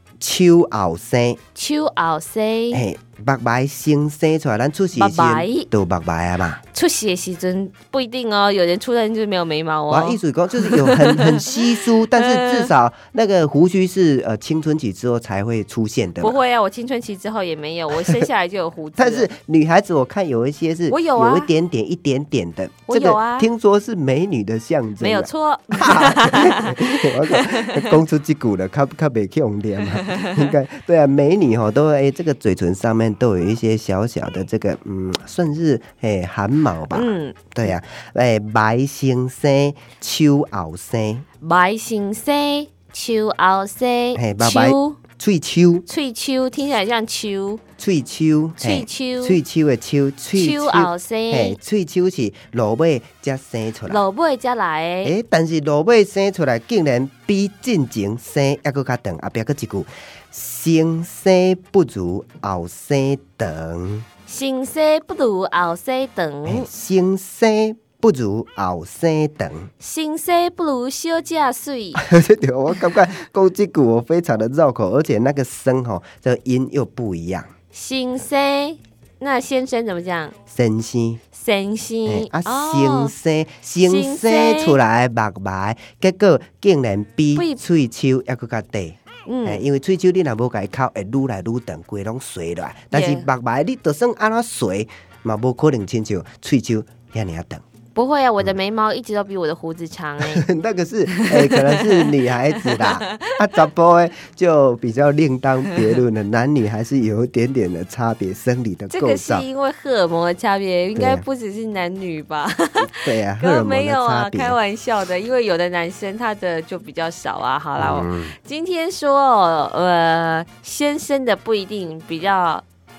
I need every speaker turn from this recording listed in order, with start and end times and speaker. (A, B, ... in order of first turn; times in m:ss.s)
0:00.2-0:01.4 A
0:01.5-0:02.8 B
0:02.7-0:06.6 A
0:04.9-0:05.7 B
0:06.7-0:12.7 B
0:09.9-0:16.4 A
0:16.2-0:19.3 B
0:19.0-0:41.2 A
0:20.9-0:21.5 B
0:22.9-0:23.5 B
0:25.0-0:28.0 B
0:29.9-0:30.5 B
0:36.9-0:37.7 B
0:41.4-0:45.0 B
0:44.1-0:45.8 A
0:45.9-0:47.6 B
0:47.8-0:54.0 A
0:48.6-0:49.4 B
0:50.3-0:51.6 B
0:53.9-0:55.1 B
0:55.0-1:04.0 A
1:04.3-1:06.7 B
1:06.4-1:09.7 A
1:09.8-1:12.0 B
1:11.9-1:17.5 A
1:17.7-1:20.3 B
1:20.5-1:21.2 A
1:21.3-1:23.1 B
1:22.0-1:37.6 A
1:23.8-1:24.8 B
1:27.3-1:27.6 B
1:29.2-1:29.6 B
1:32.9-1:33.3 B
1:37.9-1:40.4 B
1:40.2-1:49.4 A
1:41.1-1:43.6 B
1:48.9-2:02.6 B
1:50.9-1:51.2 A
1:52.8-1:54.6 A
1:57.8-1:58.4 A